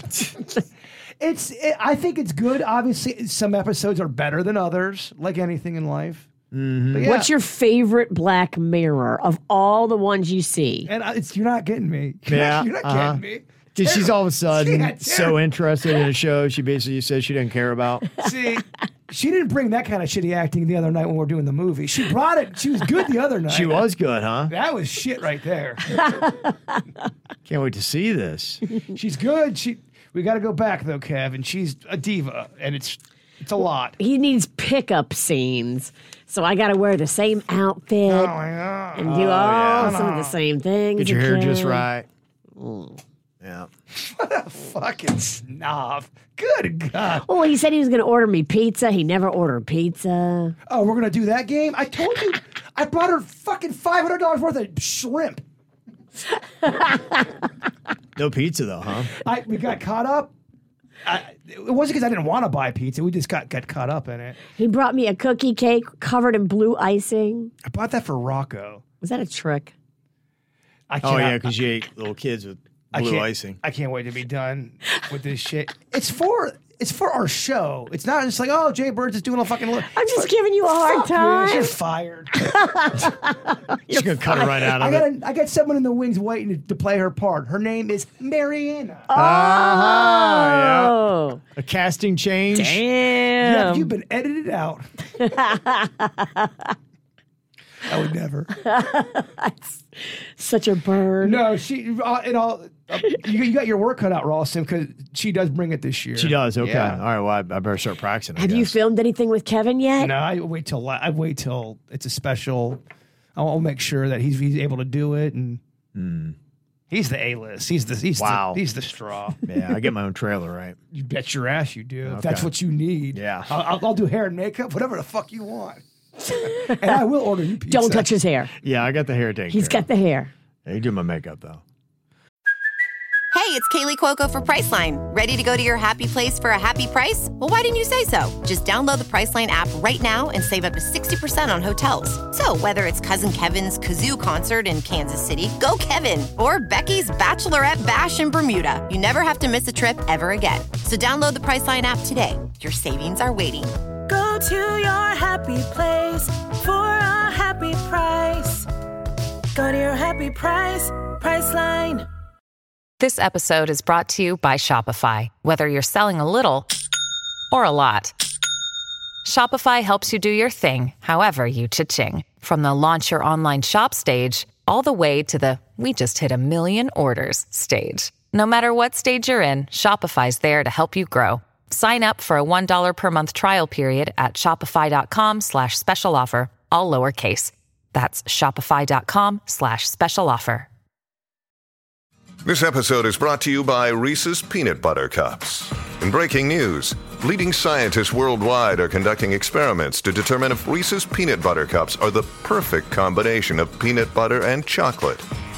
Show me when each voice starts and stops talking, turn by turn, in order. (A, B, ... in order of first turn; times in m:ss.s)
0:01.2-0:06.3 A
0:06.5-0:07.1 B
0:06.9-0:07.3 A
0:07.0-0:10.9 C
0:10.9-0:15.4 A
0:12.3-0:13.2 B
0:13.7-0:18.1 B
0:18.2-0:23.8 A
0:23.5-0:24.5 B
0:24.5-0:26.3 A
0:26.2-0:26.5 C
0:27.4-0:28.8 B
0:28.9-0:34.0 A
0:34.0-0:38.3 C
0:38.0-0:40.4 A
0:39.0-0:41.8 C
0:39.1-0:40.0 B
0:41.0-0:42.1 B
0:42.6-0:43.0 C
0:43.4-0:43.7 B
0:44.0-0:47.2 A
0:47.1-0:50.5 C
0:50.7-0:55.4 A
0:56.6-0:57.1 C
0:58.2-0:59.1 B
0:59.2-1:00.3 A
1:01.0-1:04.4 A
1:04.5-1:07.5 C
1:07.6-1:08.8 A
1:09.0-1:09.7 C
1:10.9-1:11.4 A
1:11.0-1:13.6 B
1:12.9-1:23.2 A
1:19.8-1:21.7 C
1:22.4-1:24.4 C
1:23.9-1:25.1 B
1:24.3-1:29.1 A
1:29.1-1:31.4 C
1:29.1-1:31.0 B
1:31.6-1:32.8 B
1:32.5-1:33.9 C
1:33.4-1:35.4 A
1:35.2-1:36.7 C
1:37.9-1:38.5 A
1:38.6-1:41.4 C
1:41.2-1:47.0 A
1:46.1-1:48.8 B
1:48.4-1:50.1 C
1:50.0-1:52.8 A
1:53.4-1:55.6 A
1:55.9-1:56.4 B
1:56.9-1:59.4 A
1:58.2-1:58.6 B
1:59.4-2:00.8 B
2:00.9-2:08.1 A
2:02.0-2:02.5 B
2:03.1-2:03.5 B
2:07.7-2:08.5 C
2:08.6-2:09.8 B
2:09.5-2:10.3 C
2:10.6-2:11.6 B
2:13.3-2:33.7 D
2:34.1-2:38.6 E
2:39.5-2:42.1 E
2:43.0-2:46.7 F
2:47.5-2:48.1 F
2:49.2-3:10.7 F
3:12.4-3:25.2 G